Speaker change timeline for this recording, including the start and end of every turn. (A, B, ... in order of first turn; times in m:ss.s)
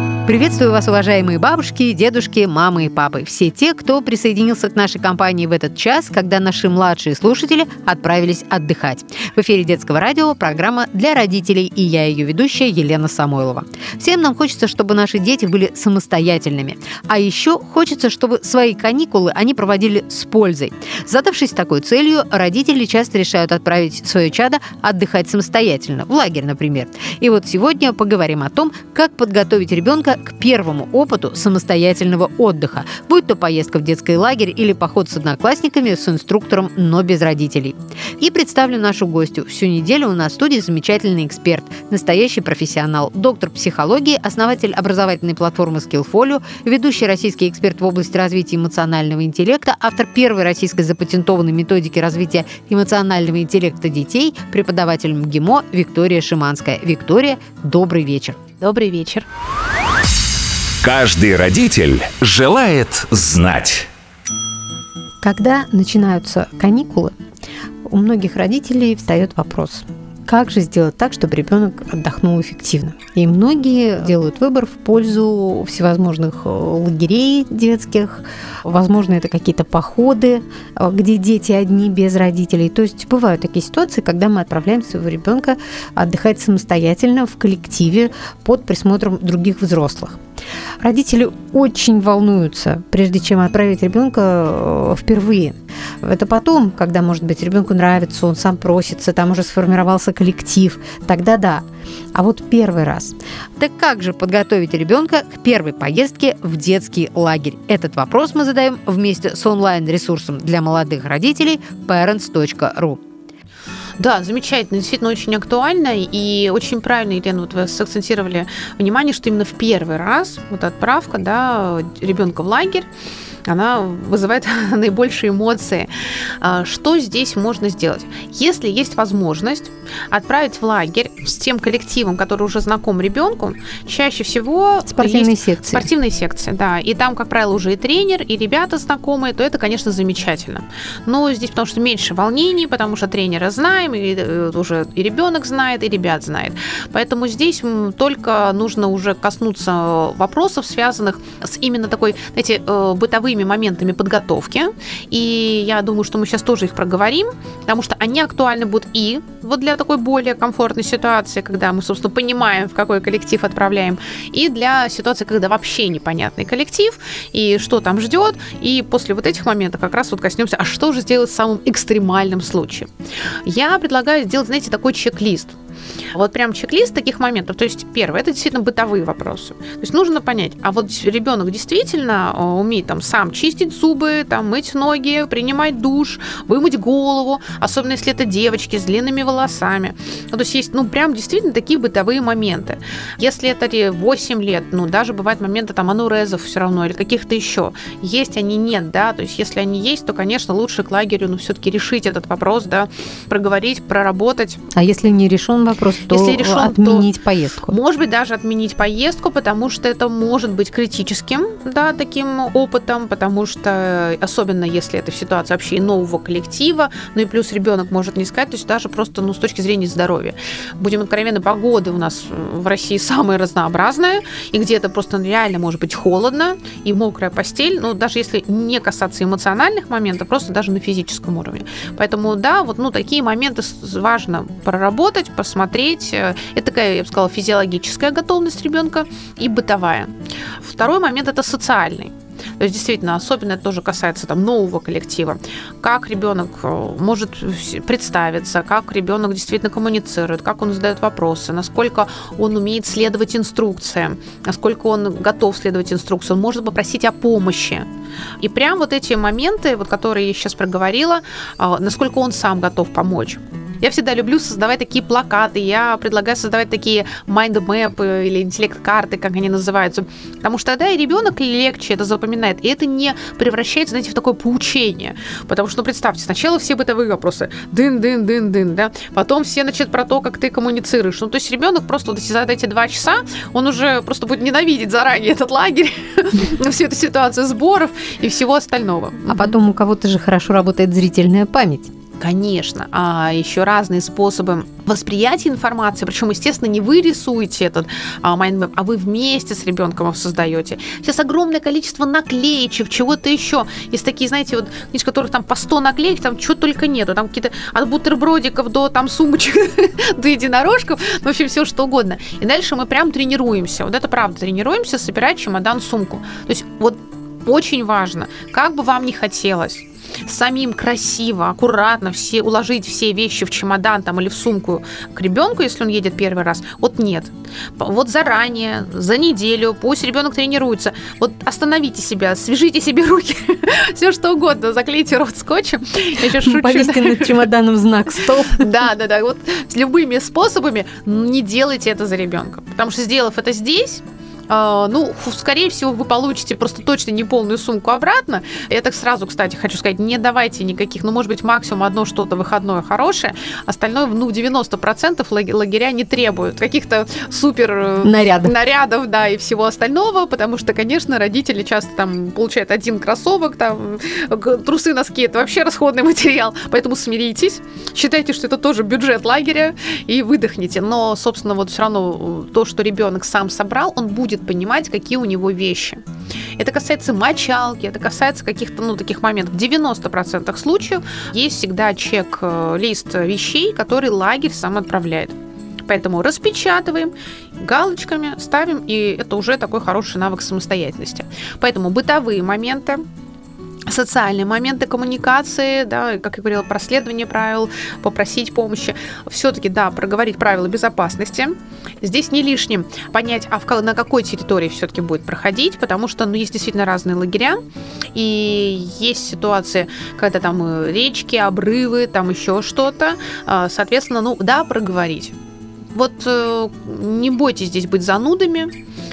0:00.3-0:58.4 A
0:58.6-0:59.3 B
1:00.8-1:03.9 C
1:05.2-1:07.2 A
1:07.9-1:30.2 A
1:30.8-1:53.0 A
1:54.0-2:02.9 B
2:03.5-2:05.9 B
2:06.4-2:52.9 B
2:14.9-2:15.9 A
2:53.4-2:55.6 B
2:56.1-3:24.6 B
3:24.7-3:27.7 A
3:26.1-3:27.1 B
3:27.7-4:17.9 B
4:18.4-4:49.5 B
4:49.3-4:51.9 A
4:52.2-5:37.5 B
5:36.2-5:38.7 A
5:38.5-6:16.0 B
5:58.0-5:58.5 A
6:16.6-6:25.3 B
6:25.9-6:33.0 B
6:33.9-6:47.6 B
6:48.2-6:55.4 B
6:55.9-6:58.7 B